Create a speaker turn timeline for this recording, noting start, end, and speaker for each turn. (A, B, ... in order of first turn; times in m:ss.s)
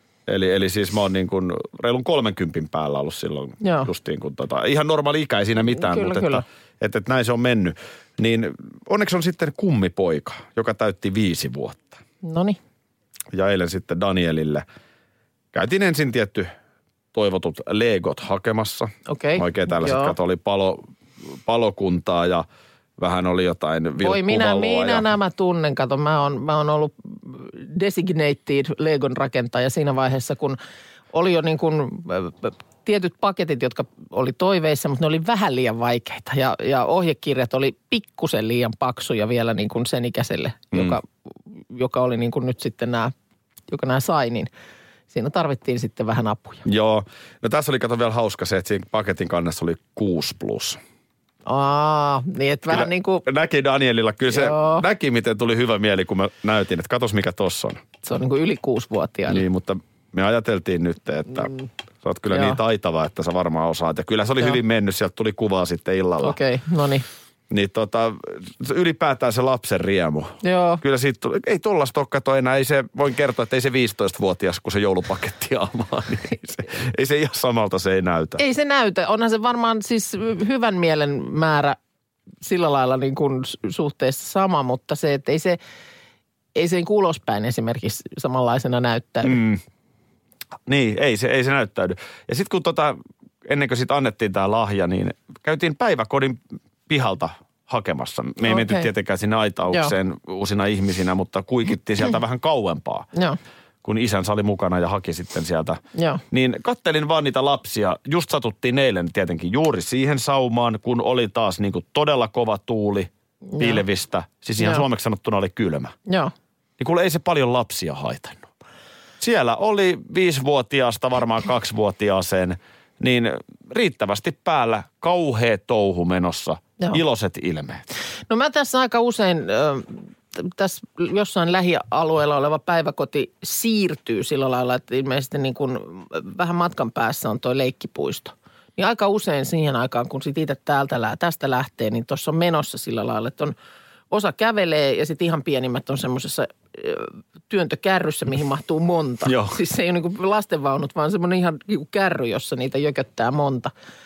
0:00.2-0:12.0 A
0:03.6-0:03.9 B
0:05.7-0:06.4 B
0:12.2-0:12.6 B
0:13.3-0:14.6 A
0:15.5-0:16.5 A
0:17.1-0:22.4 A
0:19.1-0:20.1 B
0:23.0-0:25.1 A
0:24.0-0:30.6 B
0:31.1-0:43.1 B
0:43.7-0:44.5 B
0:45.1-0:46.6 B
0:46.6-0:50.8 A
0:51.4-0:53.2 B
0:52.7-0:57.8 A
0:54.3-0:54.8 B
0:58.0-0:59.4 B
0:59.3-1:06.4 A
1:02.3-1:02.6 B
1:06.2-1:07.0 B
1:07.5-1:18.4 A
1:10.4-1:10.8 B
1:18.4-1:21.8 B
1:22.4-1:25.6 B
1:26.5-1:29.4 B
1:29.2-1:29.6 A
1:30.6-1:43.1 A
1:38.4-1:38.9 B
1:43.8-1:45.8 A
1:45.9-1:46.2 B
1:46.3-1:55.9 A
1:53.5-1:53.8 B
1:54.6-1:54.8 B
1:56.1-1:56.3 B
1:56.8-1:58.5 A
1:59.2-2:07.8 A
2:08.3-2:23.5 B
2:24.1-2:33.7 B
2:29.2-2:29.6 A